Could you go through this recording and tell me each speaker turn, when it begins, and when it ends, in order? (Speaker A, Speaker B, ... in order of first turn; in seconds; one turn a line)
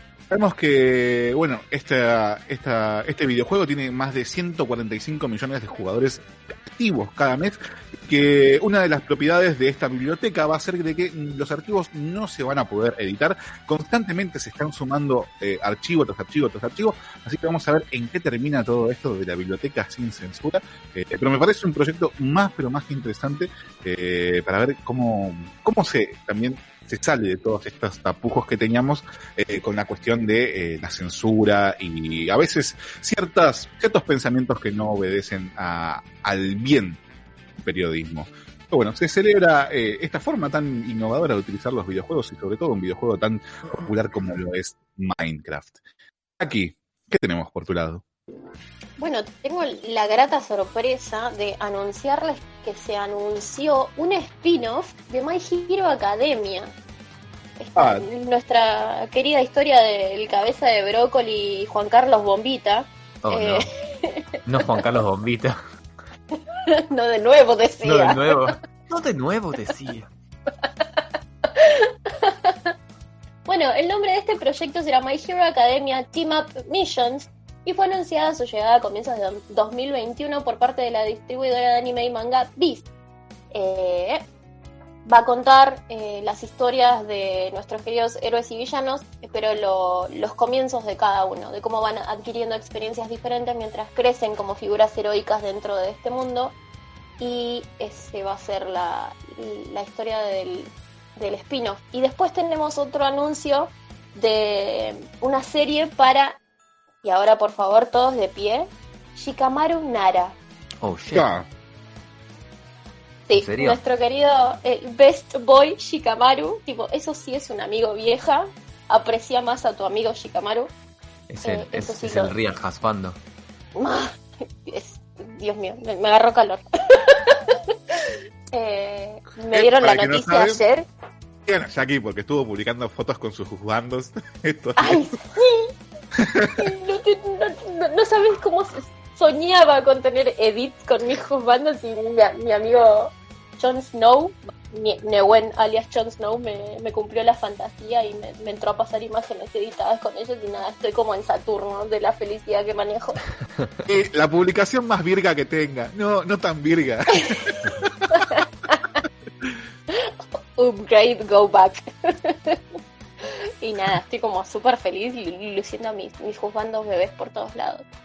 Speaker A: 0.3-37.0
Speaker A: 37.6-45.8
Speaker A: 46.4-48.0
Speaker B: 49.0-56.7
Speaker B: 57.6-64.8
Speaker A: 57.8-58.0
Speaker C: 63.2-63.7
Speaker C: 64.5-65.6
Speaker B: 66.7-68.5
Speaker C: 67.8-70.1
Speaker B: 71.5-72.7
Speaker B: 73.5-82.8
Speaker B: 83.5-84.2
Speaker B: 85.0-96.5
Speaker B: 97.2-106.4
Speaker B: 107.0-110.3
Speaker C: 110.8-111.3
Speaker A: 111.1-111.5
Speaker B: 113.3-120.7
Speaker C: 113.3-113.8
Speaker C: 121.3-123.2
Speaker B: 121.4-122.3
Speaker B: 123.7-130.8
Speaker A: 129.5-130.6
Speaker A: 131.4-135.1
Speaker B: 134.8-135.7
Speaker A: 136.2-136.7
Speaker B: 136.6-153.2
Speaker A: 153.8-158.2
Speaker B: 157.2-157.4
Speaker B: 158.1-159.0
Speaker B: 159.9-162.6
Speaker B: 163.2-167.8